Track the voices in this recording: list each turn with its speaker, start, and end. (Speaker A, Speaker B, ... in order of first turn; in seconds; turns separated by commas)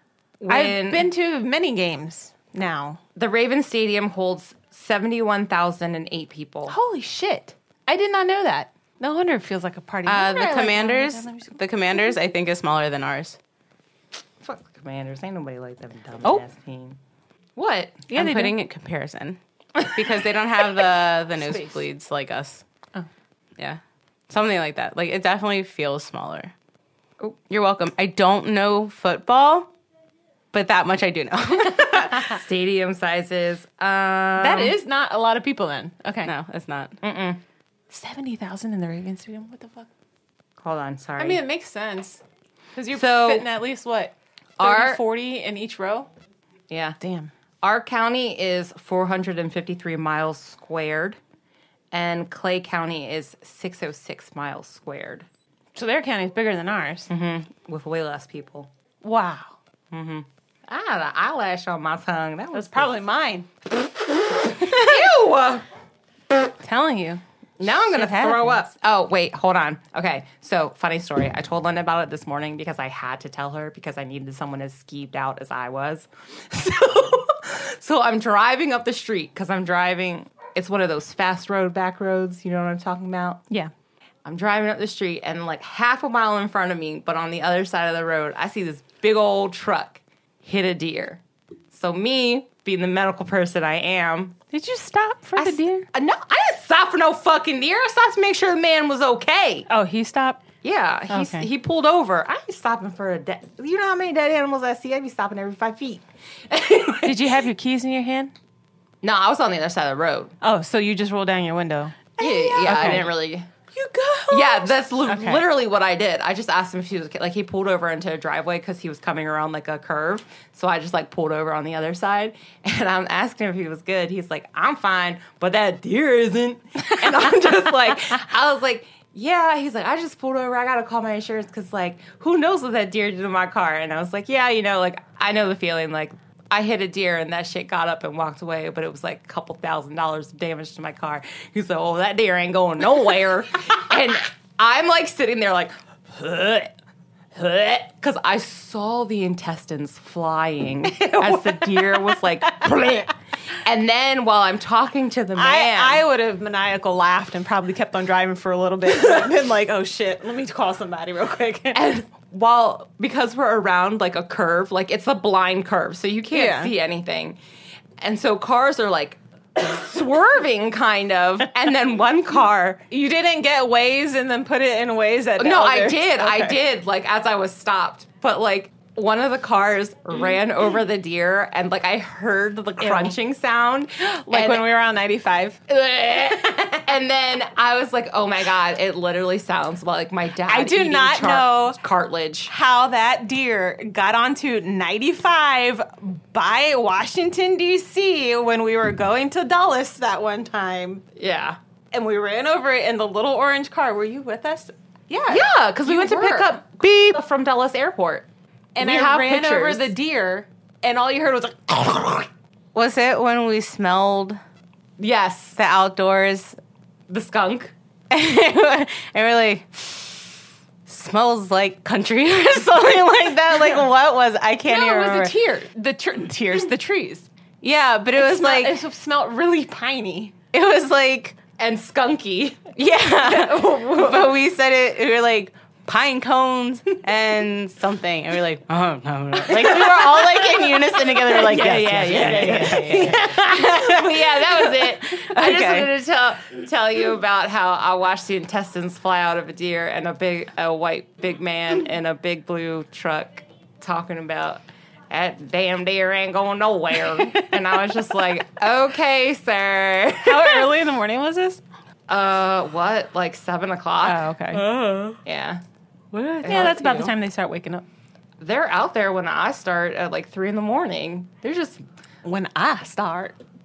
Speaker A: 0.4-1.1, Speaker B: 0.5-3.0, Speaker A: 3.2-6.8, Speaker B: 6.7-11.6, Speaker C: 10.1-13.4, Speaker A: 14.4-17.0, Speaker A: 17.6-18.1, Speaker C: 18.1-22.6, Speaker B: 18.1-18.6, Speaker C: 23.6-26.5, Speaker C: 27.5-29.7, Speaker C: 30.5-32.4, Speaker A: 31.9-34.8, Speaker B: 34.4-36.3, Speaker C: 36.2-37.0, Speaker A: 37.0-37.4, Speaker B: 37.9-39.9, Speaker A: 40.6-41.4, Speaker B: 41.2-42.2, Speaker B: 42.8-46.1, Speaker A: 42.9-43.5, Speaker A: 44.6-45.0, Speaker A: 46.7-47.0, Speaker B: 47.0-47.3, Speaker A: 47.6-51.2, Speaker A: 51.9-55.3, Speaker B: 55.8-57.1, Speaker A: 57.1-58.7, Speaker B: 59.0-59.6, Speaker A: 59.9-62.9, Speaker B: 62.5-63.5, Speaker A: 64.4-65.7, Speaker B: 66.6-68.6, Speaker A: 67.6-83.4, Speaker A: 84.2-94.4, Speaker B: 94.5-95.9, Speaker A: 95.4-99.7, Speaker B: 99.7-100.4, Speaker A: 100.6-107.2, Speaker B: 101.1-101.5, Speaker B: 107.0-108.3, Speaker A: 109.0-110.3, Speaker B: 110.4-113.1, Speaker A: 112.2-113.5, Speaker B: 113.7-115.5, Speaker A: 114.3-146.7, Speaker B: 127.0-127.5, Speaker A: 147.3-156.0, Speaker B: 150.9-153.0, Speaker B: 155.3-161.9, Speaker A: 161.7-167.4, Speaker B: 166.3-166.7, Speaker A: 168.0-172.8, Speaker B: 172.9-176.6, Speaker A: 175.4-184.7, Speaker B: 182.8-183.2, Speaker B: 184.0-185.6, Speaker A: 185.7-192.5, Speaker B: 190.5-191.8, Speaker B: 192.5-201.1, Speaker A: 201.2-201.6, Speaker B: 201.9-206.6, Speaker A: 205.3-208.3, Speaker B: 208.8-212.3, Speaker A: 208.8-209.9, Speaker C: 212.8-214.4, Speaker A: 215.0-215.6, Speaker C: 215.6-216.6, Speaker A: 217.1-217.7, Speaker C: 218.1-225.3, Speaker B: 224.7-227.3, Speaker C: 227.6-228.8, Speaker B: 228.2-230.3, Speaker C: 230.5-231.4, Speaker A: 231.6-232.7, Speaker C: 232.8-245.9, Speaker B: 233.4-234.1, Speaker A: 239.4-260.7, Speaker B: 242.1-243.2, Speaker B: 257.1-257.5, Speaker B: 260.2-261.6, Speaker A: 262.1-264.2, Speaker B: 264.0-264.7, Speaker C: 264.5-265.2, Speaker A: 265.2-265.6, Speaker C: 266.1-267.1, Speaker A: 266.4-266.8, Speaker B: 266.4-267.9, Speaker A: 268.4-271.8, Speaker B: 272.2-273.4